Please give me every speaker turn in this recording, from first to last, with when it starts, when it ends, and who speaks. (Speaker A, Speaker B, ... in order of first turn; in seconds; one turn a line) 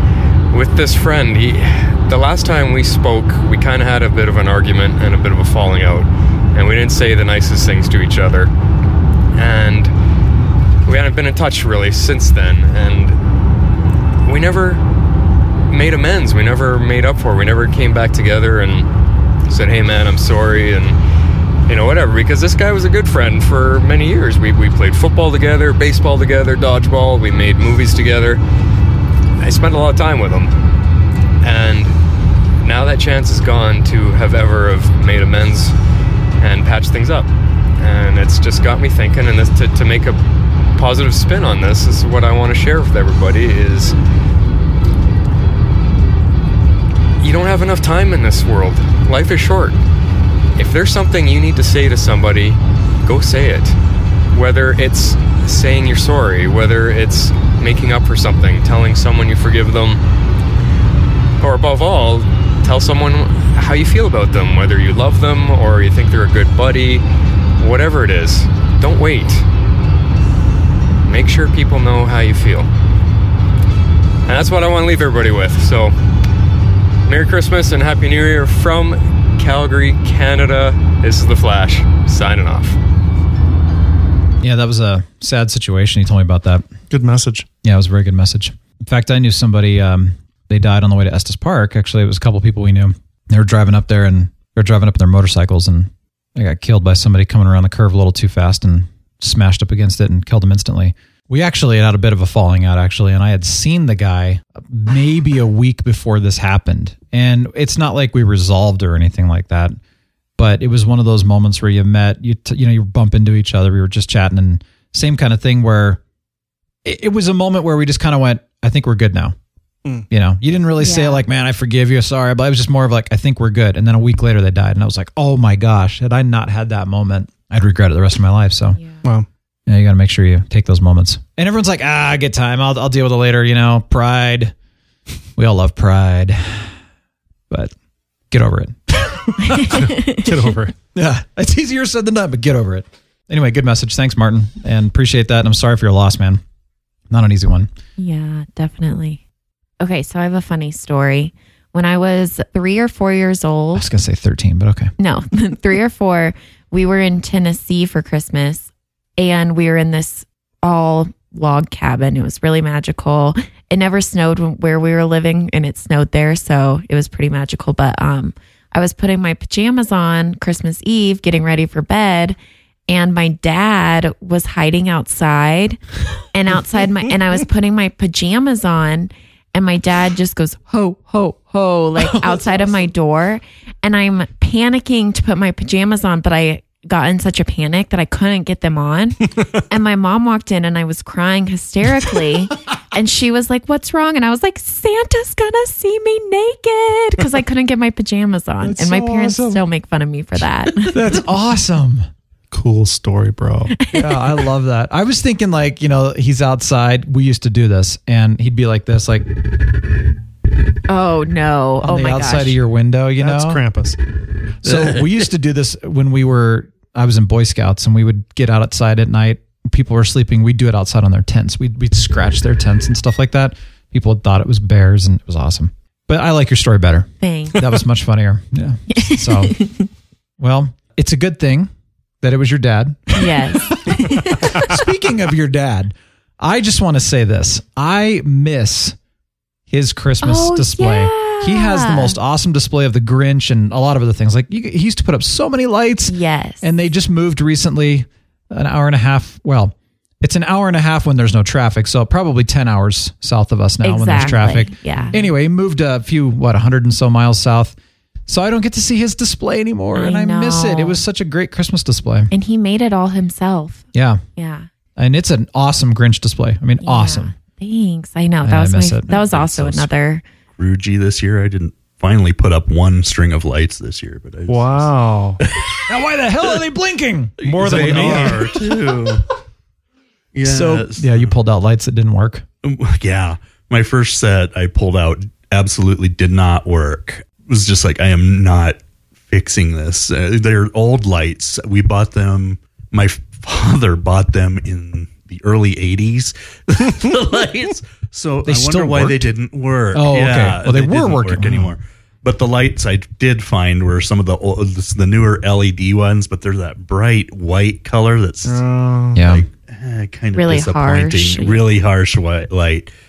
Speaker A: 0.5-8.5
Speaker A: 9.3-9.9
Speaker A: 10.8-13.2
Speaker A: 14.2-14.8
Speaker A: 15.7-18.9
Speaker A: 19.5-21.0
Speaker A: 21.7-28.4
Speaker A: 29.4-30.5
Speaker A: 31.4-31.9
Speaker A: 32.6-35.7
Speaker A: 36.4-40.2
Speaker A: 40.7-44.0
Speaker A: 47.2-49.8
Speaker A: 50.5-53.8
Speaker A: 54.3-60.0
Speaker A: 61.4-67.0
Speaker A: 67.6-69.5
Speaker A: 71.0-72.7
Speaker A: 74.2-75.9
Speaker A: 77.1-82.8
Speaker B: 84.4-86.7
Speaker C: 86.9-87.5
Speaker B: 87.6-109.8
Speaker B: 110.4-116.0
Speaker B: 116.8-119.3
Speaker B: 120.1-128.8
Speaker D: 120.8-121.2
Speaker B: 129.7-134.5
Speaker B: 135.3-136.7
Speaker B: 138.3-139.8
Speaker C: 139.5-140.7
Speaker D: 139.6-140.2
Speaker B: 140.9-146.4
Speaker B: 147.1-147.7
Speaker D: 148.0-149.2
Speaker D: 149.8-153.9
Speaker B: 153.7-154.9
Speaker D: 155.0-158.7
Speaker D: 159.2-172.4
Speaker D: 172.9-175.8
Speaker D: 176.3-201.2
Speaker B: 182.0-182.5
Speaker B: 198.6-199.6
Speaker B: 200.8-202.1
Speaker C: 202.5-203.7
Speaker D: 203.8-204.2
Speaker B: 203.9-209.3
Speaker D: 210.9-212.6
Speaker B: 211.8-213.6
Speaker C: 213.2-214.0
Speaker B: 214.6-229.6
Speaker E: 214.6-215.1
Speaker D: 227.2-227.6
Speaker D: 228.9-229.9
Speaker B: 230.4-231.7
Speaker B: 232.2-238.9
Speaker D: 233.1-234.8
Speaker B: 239.7-257.7
Speaker D: 240.2-242.2
Speaker D: 246.1-246.7
Speaker D: 253.8-255.1
Speaker B: 258.3-262.3
Speaker D: 259.9-261.0
Speaker D: 262.3-264.6
Speaker B: 263.9-264.2
Speaker B: 265.0-267.3
Speaker D: 266.8-270.2
Speaker B: 268.4-269.1
Speaker E: 269.1-269.9
Speaker E: 270.6-275.8
Speaker C: 274.5-275.4
Speaker B: 275.9-278.6
Speaker E: 277.4-279.2
Speaker C: 277.4-278.5
Speaker E: 280.3-281.3
Speaker B: 280.4-282.4
Speaker E: 282.6-312.9
Speaker B: 298.4-299.3
Speaker B: 299.9-301.7
Speaker C: 308.4-309.2
Speaker B: 309.1-309.4
Speaker D: 310.3-311.6